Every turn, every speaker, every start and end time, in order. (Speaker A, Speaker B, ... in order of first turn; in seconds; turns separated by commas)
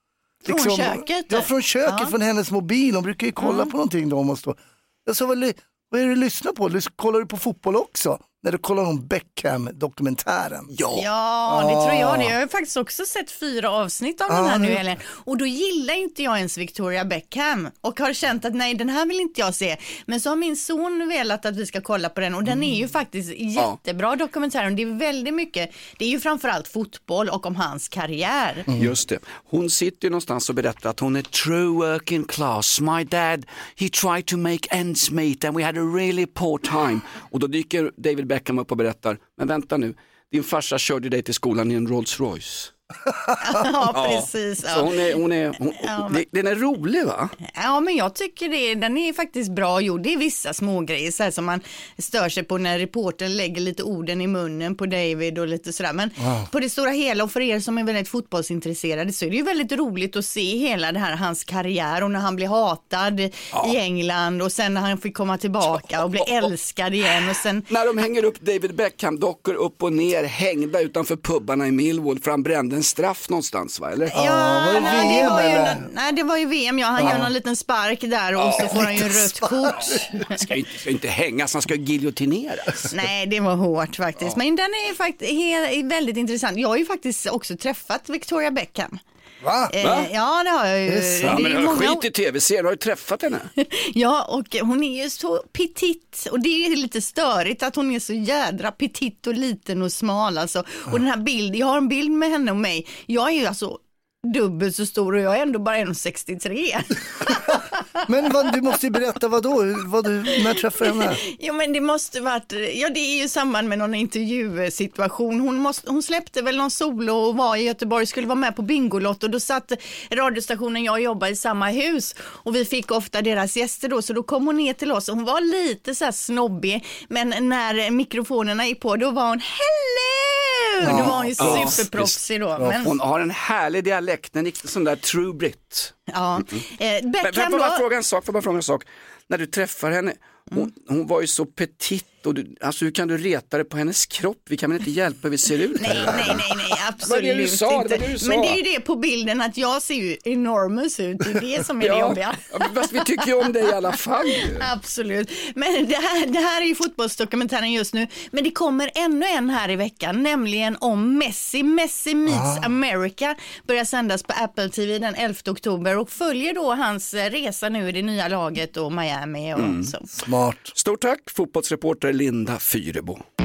Speaker A: 0.4-2.1, Speaker B: 0.5-10.7, Speaker A: 3.4-3.7, Speaker C: 10.7-11.0, Speaker A: 10.9-28.7, Speaker B: 11.5-12.3, Speaker B: 14.3-14.8, Speaker C: 28.8-42.7, Speaker A: 43.4-45.1, Speaker C: 43.9-47.3, Speaker A: 45.8-46.2, Speaker A: 47.5-67.7, Speaker B: 56.2-56.5, Speaker C: 66.2-66.5, Speaker C: 67.7-74.1, Speaker B: 74.1-75.8, Speaker A: 74.1-80.4, Speaker C: 74.7-75.6, Speaker B: 77.0-77.3, Speaker C: 78.4-79.0, Speaker B: 78.6-80.0, Speaker C: 80.3-82.9, Speaker A: 82.9-89.0, Speaker B: 89.4-89.7, Speaker A: 89.7-92.0, Speaker C: 89.8-90.1, Speaker B: 90.9-91.4, Speaker C: 91.2-93.5, Speaker A: 93.6-107.5, Speaker B: 108.1-111.2, Speaker A: 110.8-132.9, Speaker B: 130.8-131.8, Speaker C: 130.8-132.2, Speaker B: 132.6-132.8, Speaker C: 132.8-135.9, Speaker A: 136.1-137.8, Speaker C: 137.2-146.5, Speaker A: 145.8-153.2, Speaker C: 147.0-148.6, Speaker C: 151.8-154.7, Speaker A: 154.3-170.1, Speaker B: 162.2-162.7, Speaker C: 169.6-169.9, Speaker B: 170.2-170.7, Speaker C: 170.7-173.2